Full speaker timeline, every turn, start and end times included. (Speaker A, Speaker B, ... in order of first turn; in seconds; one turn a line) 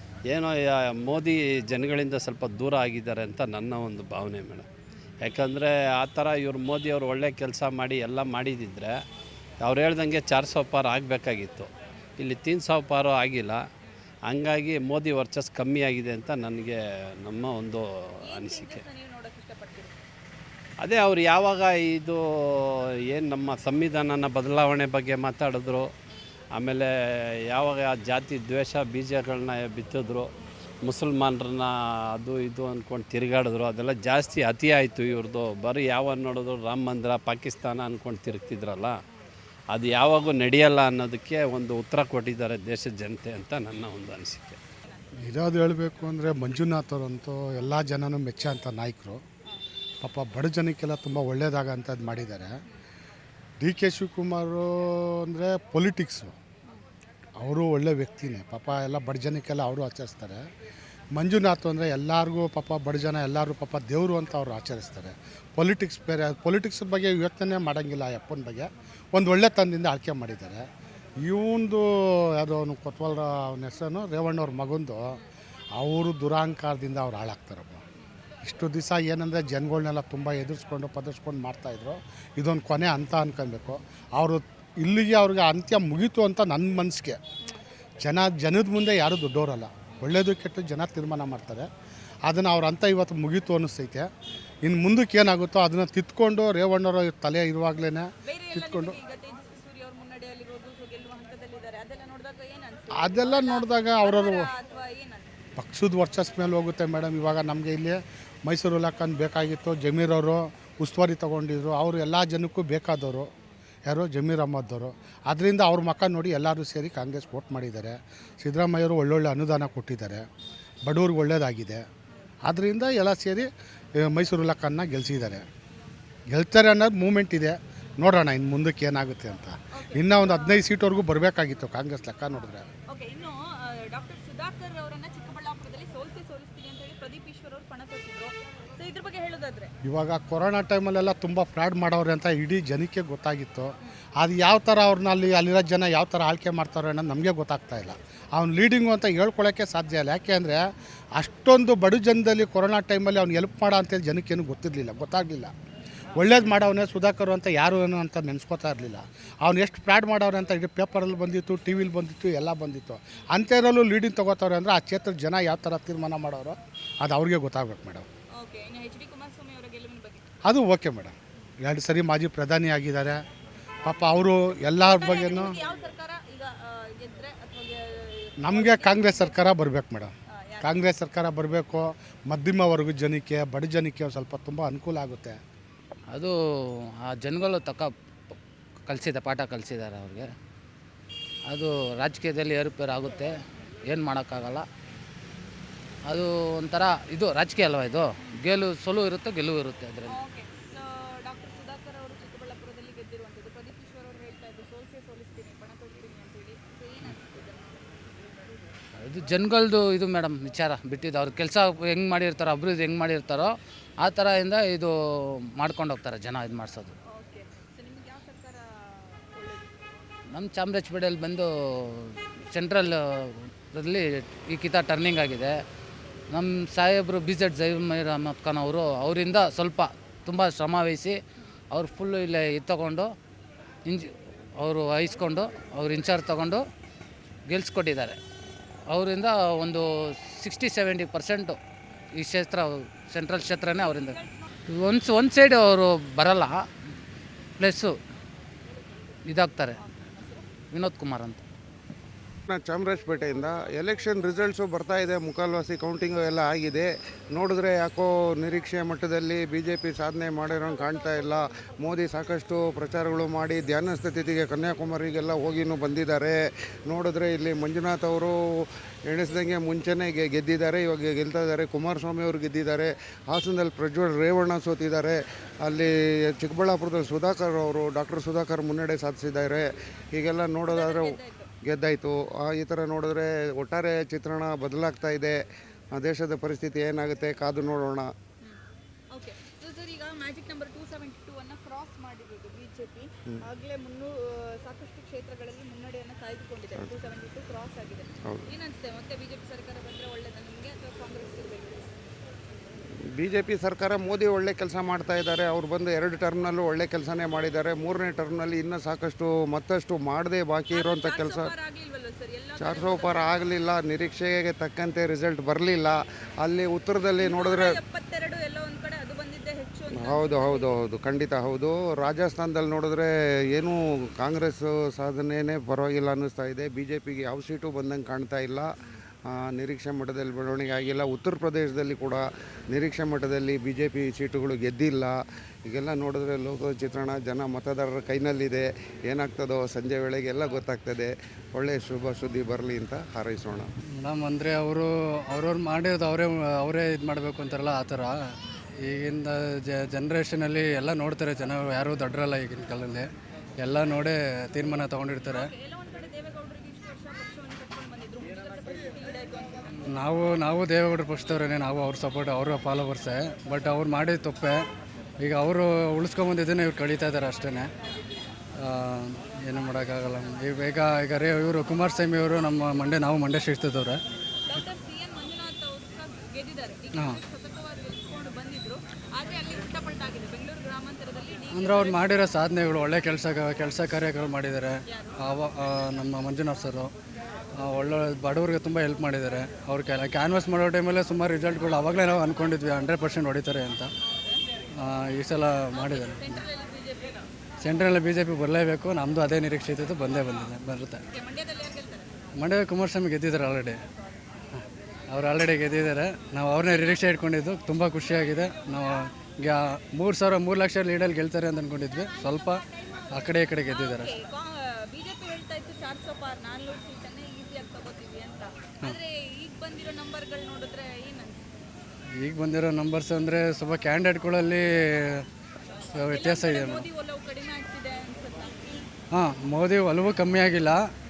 Speaker A: 0.3-4.7
Speaker A: 5.2-9.0
Speaker A: 9.6-13.6
Speaker A: 14.3-18.8
Speaker B: 18.2-20.0
Speaker A: 20.8-25.9
Speaker A: 26.6-30.3
Speaker A: 30.8-39.0
Speaker A: 39.7-44.6
Speaker C: 45.2-49.2
Speaker C: 50.0-52.5
Speaker C: 53.6-56.3
Speaker C: 57.4-60.4
Speaker C: 61.1-70.6
Speaker C: 71.2-75.2
Speaker C: 75.8-77.8
Speaker C: 78.4-87.2
Speaker C: 88.0-91.7
Speaker C: 92.3-94.1
Speaker C: 94.6-99.0
Speaker B: 98.2-105.3
Speaker C: 102.9-104.5
Speaker C: 105.6-113.3
Speaker C: 113.8-120.2
Speaker C: 120.8-121.8
Speaker C: 122.4-125.4
Speaker C: 126.3-132.7
Speaker B: 129.7-130.7
Speaker B: 132.9-139.7
Speaker C: 139.8-150.6
Speaker C: 151.2-155.5
Speaker C: 156.2-168.0
Speaker B: 168.3-170.3
Speaker C: 170.4-173.2
Speaker C: 173.8-175.6
Speaker B: 174.8-179.4
Speaker C: 178.4-185.4
Speaker B: 180.3-180.8
Speaker D: 186.1-188.3
Speaker D: 188.9-190.3
Speaker D: 191.5-194.7
Speaker D: 196.1-200.2
Speaker B: 200.0-207.9
Speaker D: 209.0-216.9
Speaker B: 217.1-219.7
Speaker D: 220.3-225.6
Speaker D: 226.3-231.2
Speaker D: 231.7-233.1
Speaker D: 233.8-236.6
Speaker D: 237.5-238.2
Speaker D: 238.9-241.6
Speaker D: 242.1-246.7
Speaker B: 243.9-244.4
Speaker D: 247.6-247.9
Speaker D: 249.3-249.8
Speaker B: 249.8-250.5
Speaker D: 250.7-251.4
Speaker E: 252.5-285.4
Speaker B: 280.7-281.5
Speaker E: 285.9-288.1
Speaker B: 288.4-301.9
Speaker E: 303.1-311.5
Speaker B: 310.7-313.5
Speaker E: 312.6-317.8
Speaker B: 317.2-320.8
Speaker E: 319.9-328.7
Speaker E: 329.2-343.7
Speaker F: 344.0-353.1
Speaker F: 353.6-355.5
Speaker B: 355.2-359.8
Speaker F: 359.9-364.7
Speaker F: 365.2-367.7
Speaker F: 368.6-374.0
Speaker B: 374.5-382.1
Speaker F: 376.9-377.2
Speaker F: 381.5-386.9
Speaker B: 384.9-385.2
Speaker F: 387.6-393.9
Speaker B: 394.0-394.4
Speaker F: 394.8-396.4
Speaker B: 395.7-397.2
Speaker F: 397.6-401.0
Speaker B: 400.2-400.5
Speaker B: 401.1-402.1
Speaker F: 402.4-403.8
Speaker F: 404.5-414.1
Speaker B: 408.8-409.0
Speaker B: 412.1-421.4
Speaker F: 422.2-425.2
Speaker F: 425.9-426.9
Speaker B: 426.0-428.6
Speaker F: 429.1-430.8